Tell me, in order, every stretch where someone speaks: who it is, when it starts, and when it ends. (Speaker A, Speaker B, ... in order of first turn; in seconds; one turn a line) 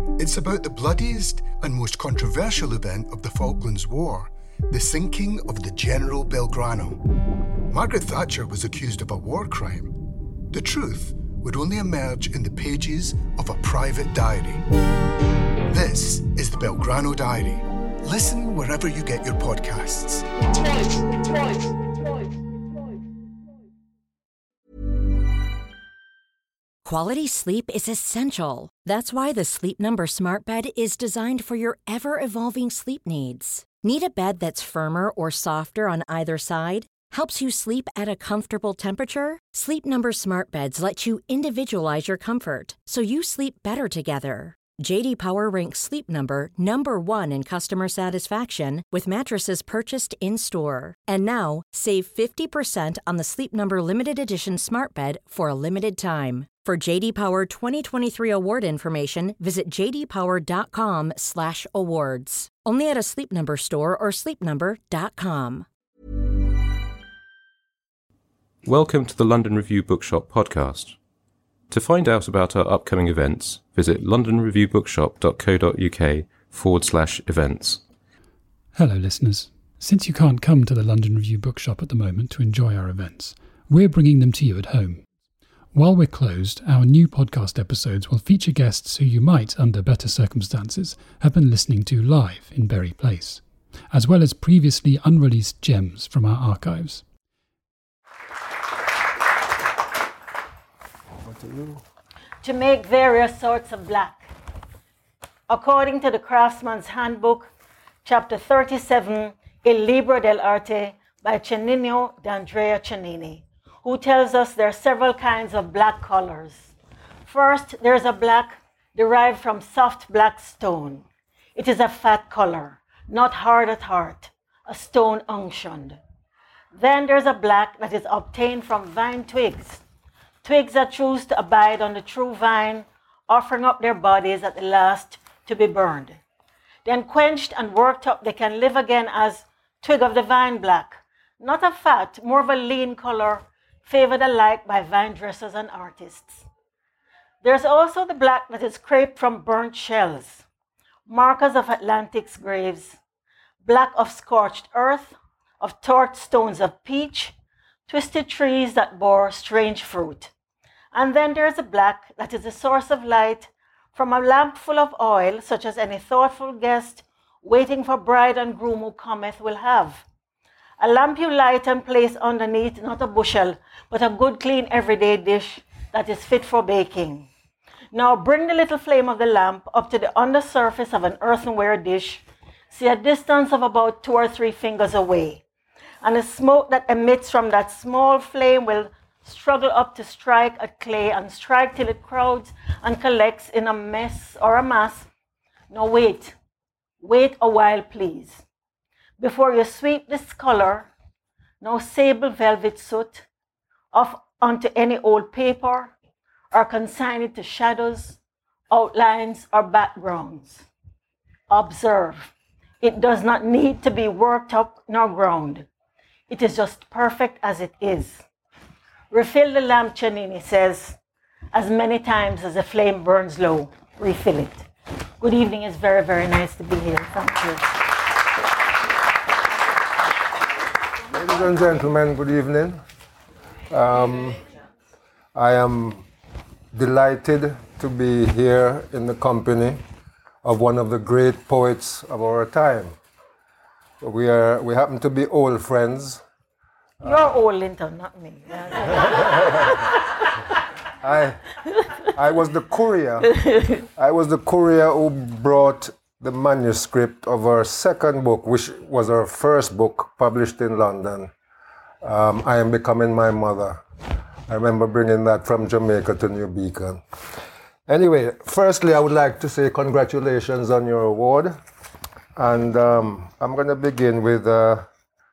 Speaker A: 0.2-7.0
Speaker A: 7.7-9.9
Speaker A: 10.5-14.6
Speaker A: 15.7-21.2
Speaker B: 26.8-65.7
Speaker C: 68.6-71.0
Speaker C: 71.7-77.8
Speaker D: 78.7-85.0
Speaker D: 85.7-97.0
Speaker E: 101.2-101.8
Speaker F: 102.4-104.3
Speaker F: 105.5-107.5
Speaker F: 108.0-116.7
Speaker F: 117.2-126.0
Speaker F: 126.7-129.8
Speaker F: 130.4-136.2
Speaker F: 136.8-146.4
Speaker F: 147.4-150.4
Speaker F: 151.1-153.0
Speaker F: 153.6-157.3
Speaker F: 157.9-160.3
Speaker F: 160.9-170.0
Speaker F: 170.8-177.3
Speaker F: 177.9-185.4
Speaker F: 186.0-195.1
Speaker F: 195.7-196.3
Speaker F: 197.0-198.4
Speaker F: 199.2-200.9
Speaker F: 201.6-203.2
Speaker F: 203.9-205.9
Speaker F: 206.5-208.2
Speaker F: 208.7-210.7
Speaker F: 211.5-215.7
Speaker F: 216.3-218.2
Speaker F: 219.1-221.0
Speaker F: 221.5-224.7
Speaker F: 225.2-227.7
Speaker E: 231.1-232.8
Speaker E: 233.7-234.4
Speaker E: 235.3-236.1
Speaker E: 236.7-239.8
Speaker E: 240.4-243.0
Speaker E: 244.0-246.2
Speaker F: 247.0-249.9
Speaker E: 249.4-249.7
Speaker E: 251.0-251.4
Speaker E: 252.1-253.3
Speaker F: 253.5-253.8
Speaker E: 253.9-261.3
Speaker E: 262.0-263.8
Speaker E: 264.5-267.0
Speaker E: 267.9-271.6
Speaker E: 272.4-274.9